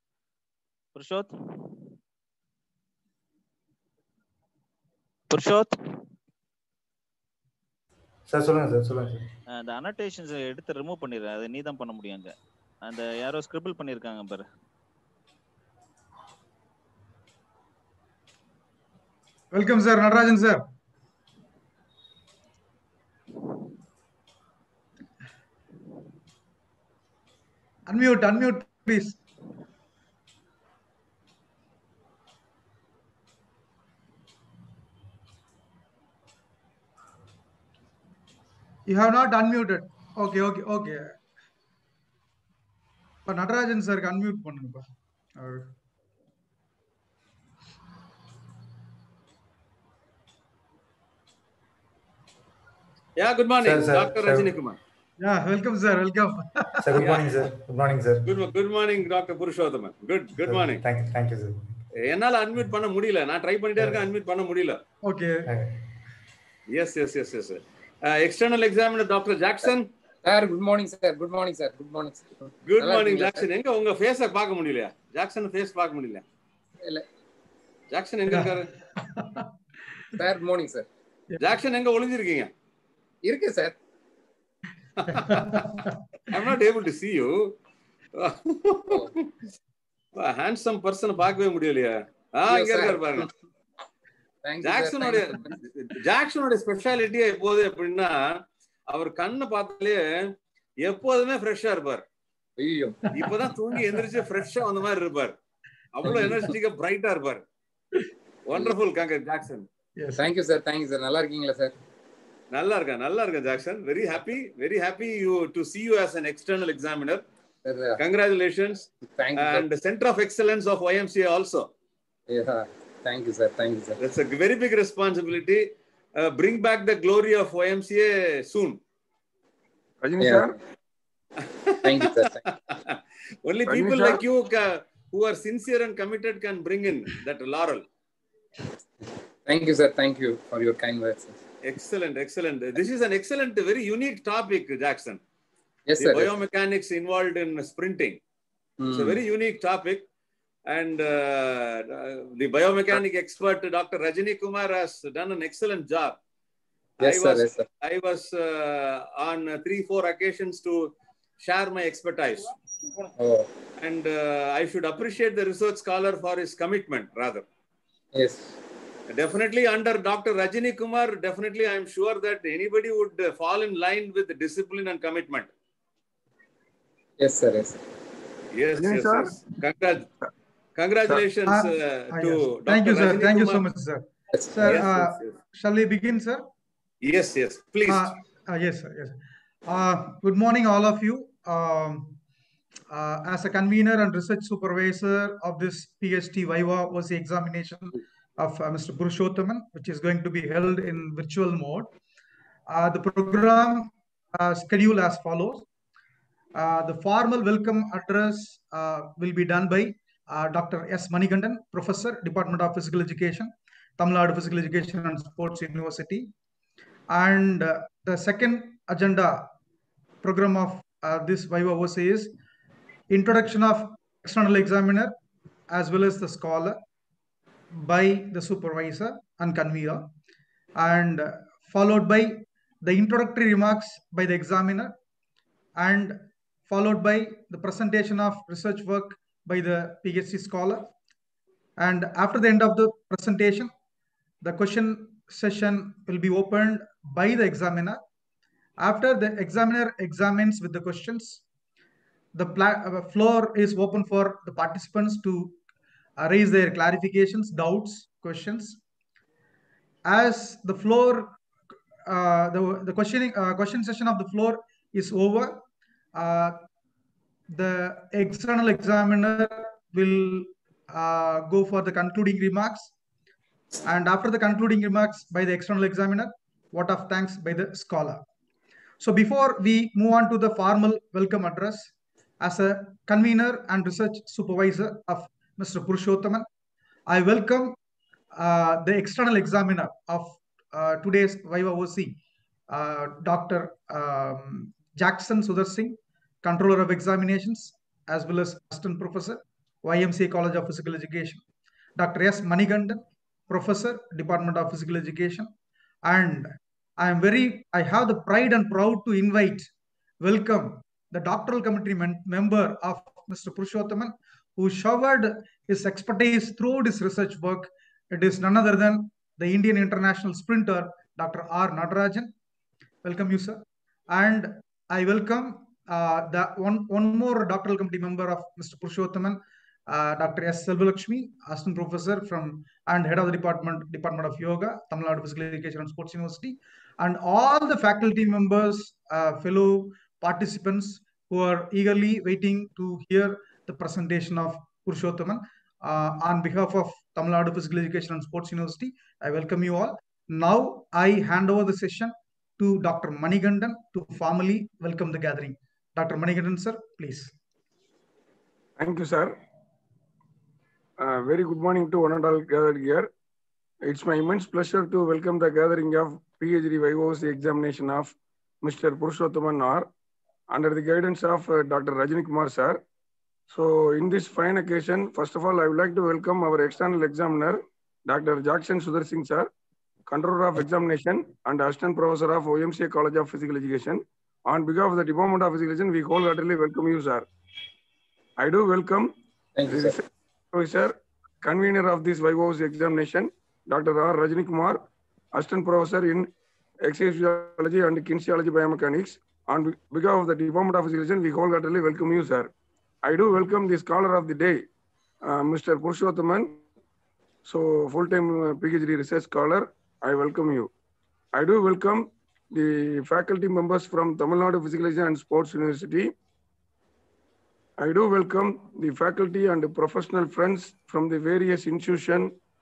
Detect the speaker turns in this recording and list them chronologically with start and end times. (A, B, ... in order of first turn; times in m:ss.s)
0:00.9-0:01.3 A
0:05.3-0:05.7 A
0:08.3-0:09.3 B
0:09.5-0:14.4 A
0:19.5-0:20.6 C
0:27.9-0:29.2 C
0:38.8-0:41.2 C
0:43.2-0:44.8 C
0:45.4-0:45.7 C
0:53.2-0:54.8 D
0:53.6-0:54.5 B
0:55.2-0:56.8 C
0:56.8-0:58.2 B
0:57.0-0:57.4 D
0:58.2-1:00.8 D
1:00.4-1:01.8 B
1:02.0-1:04.8 D
1:03.8-1:04.0 B
1:05.0-1:05.5 C
1:05.4-1:05.8 B
1:06.7-1:09.9 D
1:10.2-1:13.5 E
1:12.6-1:16.2 D
1:17.9-1:18.7 D
1:18.3-1:19.5 C
1:20.2-1:20.9 E
1:21.4-1:22.5 D
1:23.2-1:23.7 E
1:25.1-1:25.9 C
1:25.1-1:27.5 D
1:28.2-1:29.2 D
1:30.2-1:33.3 D
1:32.5-1:33.3 E
1:34.4-1:35.6 E
1:34.6-1:42.0 D
1:42.6-1:43.0 E
1:43.1-1:45.3 D
1:45.9-1:47.4 D
1:46.0-1:46.4 C
1:48.5-1:49.7 D
1:50.0-1:50.3 C
1:50.2-1:51.7 E
1:52.5-1:57.2 D
1:57.6-1:58.0 E
1:58.0-2:01.7 D
1:59.1-1:59.6 E
2:02.3-2:04.0 E
2:04.0-2:08.8 D
2:10.0-2:10.5 F
2:10.2-2:10.5 E
2:11.8-2:12.4 E
2:13.4-2:17.8 D
2:13.7-2:14.2 F
2:19.4-2:21.4 E
2:21.6-2:25.2 D
2:25.9-2:26.3 E
2:26.0-2:28.2 D
2:28.8-2:29.2 E
2:28.9-2:30.1 D
2:30.7-2:36.2 D
2:37.0-2:37.6 E
2:37.0-2:42.5 D
2:43.2-2:43.5 E
2:43.8-2:47.4 D
2:48.1-2:48.6 E
2:49.1-2:55.5 D
2:57.2-2:57.8 E
2:58.5-3:00.0 D
2:58.8-2:59.4 F
3:00.8-3:03.6 D
3:01.5-3:06.4 C
3:04.3-3:04.7 E
3:04.6-3:05.3 D
3:07.0-3:08.1 D
3:07.9-3:12.2 C
3:12.9-3:21.9 C
3:22.7-3:25.6 C
3:26.5-3:36.3 C
3:37.1-3:39.5 C
3:40.2-3:42.3 C
3:43.1-3:45.1 C
3:45.7-3:46.8 C
3:47.7-3:50.1 C
3:50.8-3:54.9 C
3:55.8-4:00.9 C
4:01.8-4:03.7 C
4:04.4-4:08.0 C
4:08.8-4:11.4 C
4:12.3-4:15.6 C
4:16.2-4:18.8 C
4:20.0-4:21.3 C
4:22.0-4:25.6 C
4:26.1-4:26.6 C
4:27.5-4:32.9 C
4:33.8-4:38.2 C
4:39.0-4:41.9 C
4:42.4-4:46.5 C
4:47.1-4:47.8 C
4:48.3-4:52.2 C
4:52.7-5:01.4 C
5:02.0-5:05.5 C
5:06.0-5:09.7 C
5:10.2-5:22.3 C
5:23.0-5:57.3 C
5:58.8-5:59.3 F
6:01.0-6:03.1 F
6:03.8-6:09.9 F
6:10.5-6:12.8 F
6:13.5-6:19.5 F
6:20.1-6:27.2 F
6:28.4-6:29.1 F
6:29.6-6:30.0 E
6:29.7-6:30.0 F
6:30.5-6:34.8 F
6:35.3-6:36.3 F
6:36.8-6:42.5 F
6:43.0-6:44.6 F
6:45.2-6:46.6 F
6:47.4-6:50.7 F
6:51.3-6:56.1 F
6:57.8-7:02.3 F